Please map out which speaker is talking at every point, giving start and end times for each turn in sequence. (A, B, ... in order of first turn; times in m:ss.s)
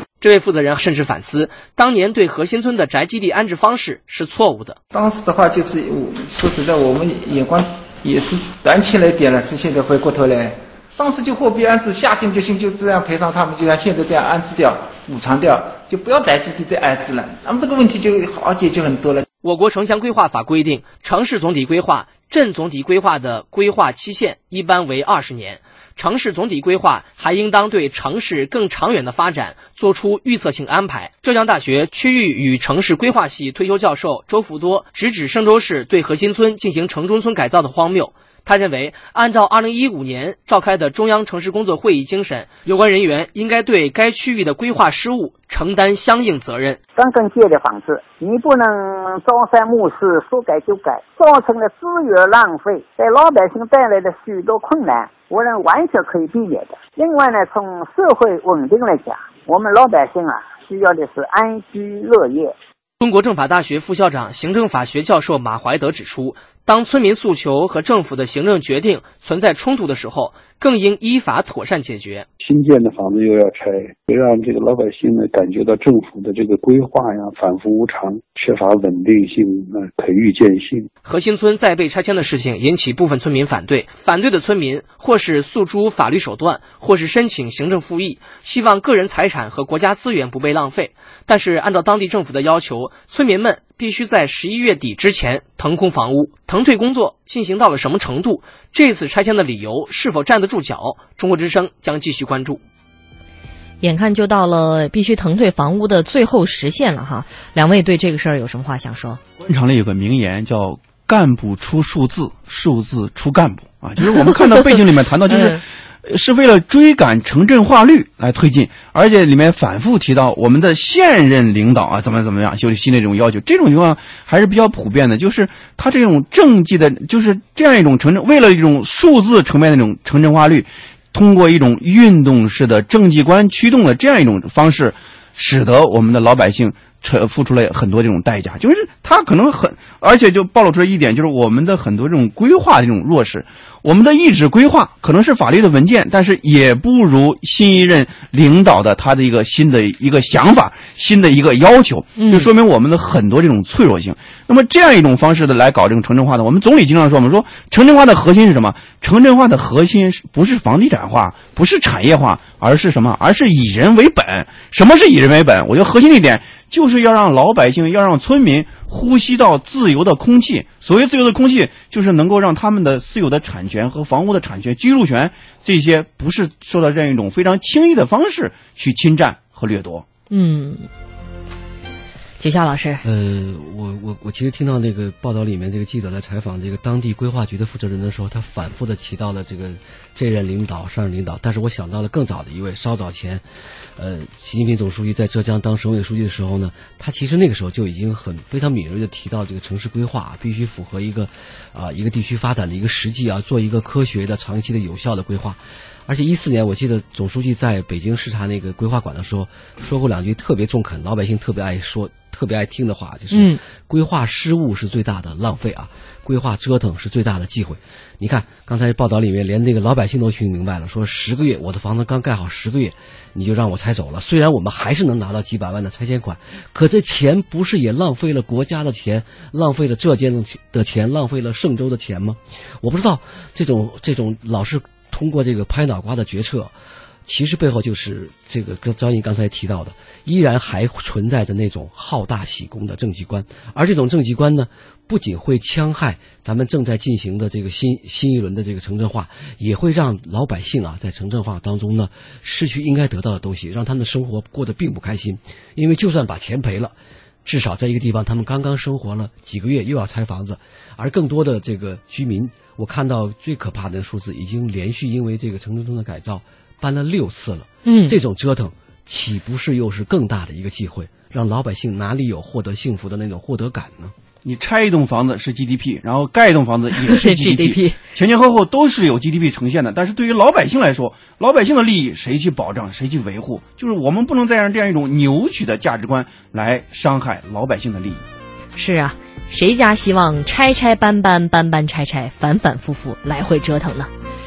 0:00.2-0:04.8 A
0:04.9-0:19.2 B
0:19.4-0:46.8 A
0:47.0-1:02.5 C
1:03.0-1:12.3 A
1:12.4-1:20.9 D
1:21.0-1:42.6 A
1:43.8-1:49.2 E
1:49.5-3:00.0 F
2:32.2-2:32.5 E
3:00.3-3:00.9 E
3:02.4-3:03.0 E
3:03.0-3:13.4 G
3:14.0-3:56.7 G
3:33.3-3:33.6 E
3:57.2-4:34.1 G
4:27.8-4:28.2 E
4:34.4-4:48.2 F
4:37.0-4:38.0 E
4:48.8-4:54.1 E